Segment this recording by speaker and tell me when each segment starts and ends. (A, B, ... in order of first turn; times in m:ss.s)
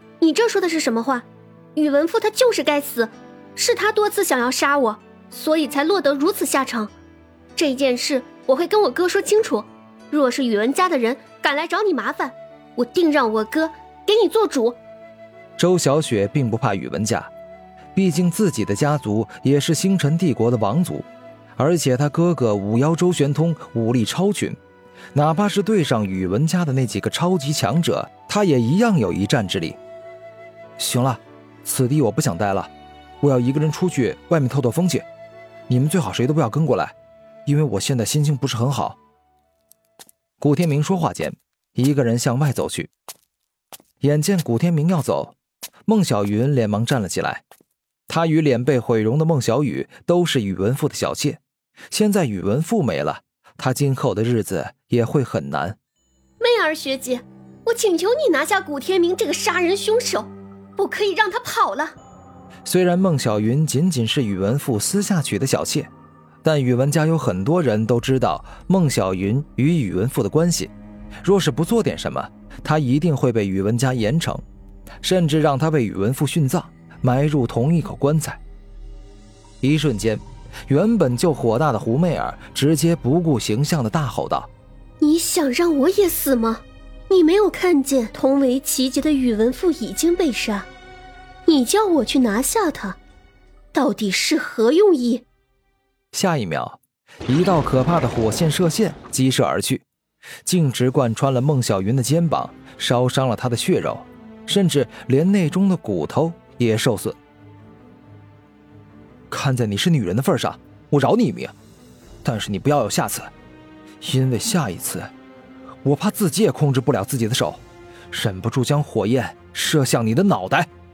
0:00.2-0:06.9 A
0:07.6-0:14.8 A
0:15.6-0:17.3 B
0:17.9-0:24.6 B
0:25.1-0:29.8 B
0:30.8-0:35.0 B
0:35.7-0:36.9 B
0:37.4-0:39.0 B
0:40.4-0:42.9 B
0:44.0-0:45.4 B
0:45.9-0:47.4 B
0:48.1-0:51.4 B
0:51.9-0:55.8 B
0:56.4-1:01.9 A
1:02.6-1:05.9 B
1:06.4-1:10.7 B
1:11.2-1:14.4 B
1:15.0-1:18.4 B
1:19.6-1:24.5 B
1:25.0-1:30.7 A
1:31.4-1:33.0 A
1:33.7-1:35.2 A
1:36.1-1:39.8 B
1:40.4-1:47.2 B
1:49.3-1:51.5 B
1:52.2-1:53.3 B
1:54.0-1:55.1 B
1:55.8-2:00.7 B